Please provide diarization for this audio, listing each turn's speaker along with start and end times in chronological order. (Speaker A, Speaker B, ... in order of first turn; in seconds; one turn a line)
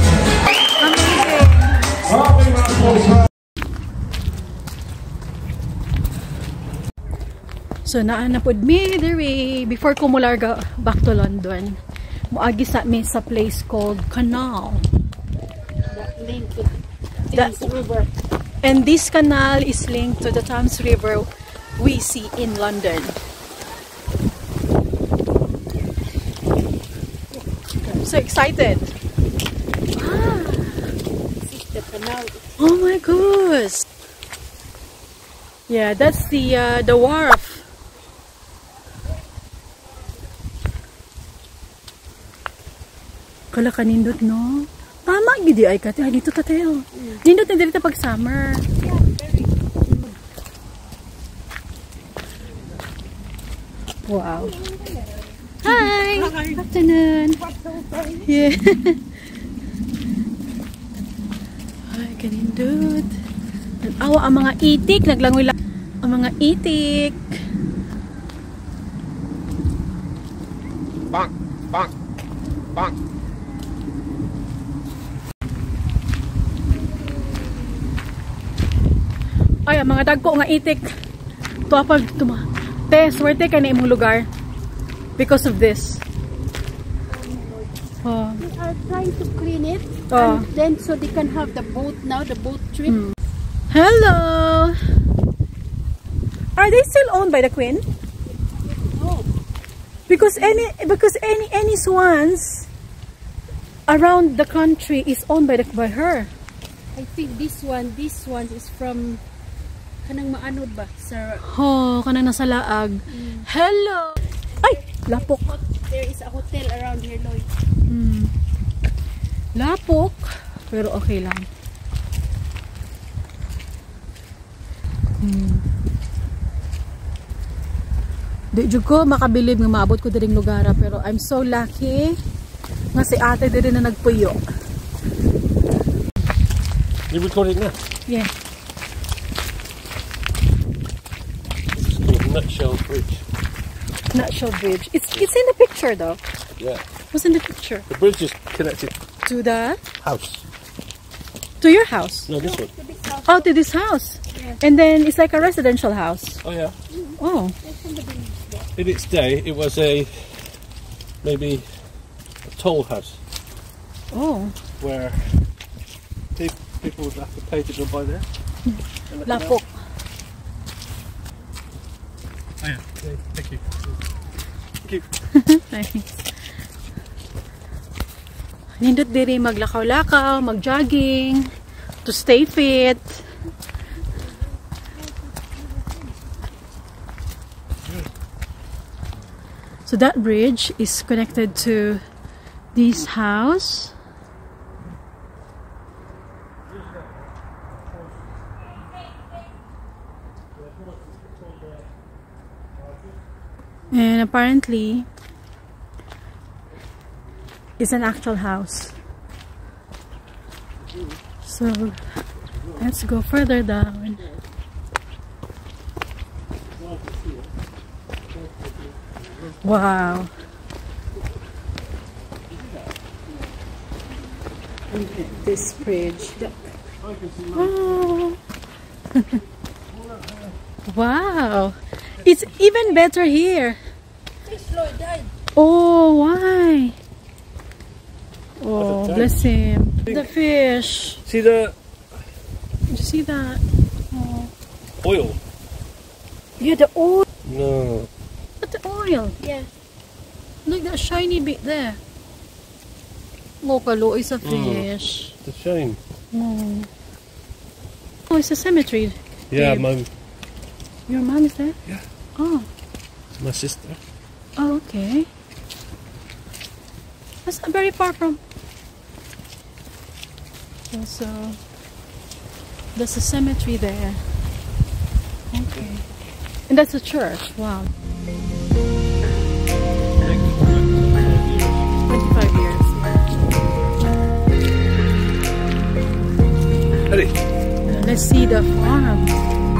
Speaker A: 0.8-3.0
Speaker A: 7.8-11.8
Speaker A: 12.3-14.8
Speaker B: 15.9-16.7
Speaker B: 17.3-18.1
Speaker A: 18.6-23.2
Speaker A: 28.0-28.9
Speaker A: 29.9-30.9
Speaker B: 31.4-32.5
Speaker A: 32.6-33.9
Speaker A: 35.7-37.6
Speaker A: 43.5-48.6
Speaker B: 46.9-47.2
Speaker B: 48.8-50.1
Speaker A: 54.0-54.6
Speaker B: 54.4-56.6
Speaker A: 55.6-57.4
Speaker B: 57.4-58.3
Speaker A: 58.2-59.1
Speaker A: 61.9-63.1
Speaker A: 63.8-67.3
Speaker A: 79.7-80.9
Speaker A: 81.7-84.3
Speaker A: 85.2-86.0
Speaker B: 87.1-87.7
Speaker A: 88.0-88.4
Speaker B: 88.4-93.0
Speaker A: 90.1-90.5
Speaker A: 92.8-93.1
Speaker A: 93.7-94.8
Speaker A: 96.5-97.8
Speaker B: 98.8-99.3
Speaker A: 100.1-102.7
Speaker B: 100.1-100.7
Speaker A: 103.9-106.3
Speaker B: 106.9-109.2
Speaker B: 110.0-111.5
Speaker A: 111.4-115.5
Speaker B: 113.1-113.5
Speaker B: 114.6-117.5
Speaker A: 117.9-118.3
Speaker A: 119.5-121.5
Speaker A: 125.2-125.6
Speaker A: 128.5-132.2
Speaker A: 132.9-134.4
Speaker C: 137.1-137.8
Speaker C: 141.7-143.2
Speaker A: 144.1-146.2
Speaker C: 146.6-146.8
Speaker A: 147.1-147.9
Speaker C: 147.9-148.9
Speaker A: 149.2-149.8
Speaker C: 150.0-150.4
Speaker A: 151.6-152.3
Speaker C: 152.3-152.7
Speaker B: 152.4-153.5
Speaker A: 153.3-156.4
Speaker B: 154.3-154.6
Speaker C: 156.4-156.8
Speaker B: 156.9-158.7
Speaker A: 157.2-157.5
Speaker C: 158.8-160.5
Speaker C: 161.2-161.7
Speaker C: 162.4-163.2
Speaker A: 164.1-164.5
Speaker C: 164.8-165.4
Speaker C: 166.3-168.2
Speaker A: 168.7-169.7
Speaker C: 169.1-169.6
Speaker C: 172.6-173.8
Speaker A: 175.3-176.2
Speaker A: 178.8-181.5
Speaker A: 182.0-183.2
Speaker B: 185.4-185.9
Speaker A: 189.8-192.0
Speaker A: 192.7-193.9
Speaker C: 200.6-201.9
Speaker C: 202.8-203.1
Speaker A: 203.9-205.1
Speaker A: 207.8-208.9
Speaker A: 211.4-212.0
Speaker A: 212.7-214.2
Speaker C: 216.7-217.5
Speaker C: 218.3-219.1
Speaker A: 219.6-220.3
Speaker C: 222.5-222.9
Speaker A: 224.9-226.5
Speaker C: 227.0-228.1
Speaker A: 227.5-228.4
Speaker A: 229.1-229.4
Speaker C: 229.9-230.6
Speaker A: 230.9-233.8
Speaker B: 234.4-235.3
Speaker A: 235.6-236.9
Speaker A: 238.6-241.2
Speaker C: 238.8-239.4
Speaker C: 241.2-241.8
Speaker A: 242.9-244.5
Speaker C: 245.0-245.4
Speaker A: 246.6-247.2
Speaker C: 247.4-248.1
Speaker A: 248.6-249.4
Speaker B: 249.4-249.7
Speaker A: 250.6-252.0
Speaker A: 253.6-255.3
Speaker C: 254.4-254.9
Speaker C: 255.4-256.0
Speaker A: 256.3-256.9
Speaker A: 258.3-259.9
Speaker C: 259.5-260.1
Speaker A: 261.1-261.8
Speaker A: 262.4-262.7
Speaker C: 263.4-264.0
Speaker A: 264.6-265.3
Speaker A: 267.4-268.4
Speaker A: 270.9-271.6
Speaker A: 272.9-274.2
Speaker A: 275.5-276.0
Speaker A: 276.7-277.9
Speaker C: 280.2-281.9
Speaker A: 282.1-283.3
Speaker C: 287.1-287.3
Speaker A: 287.9-289.4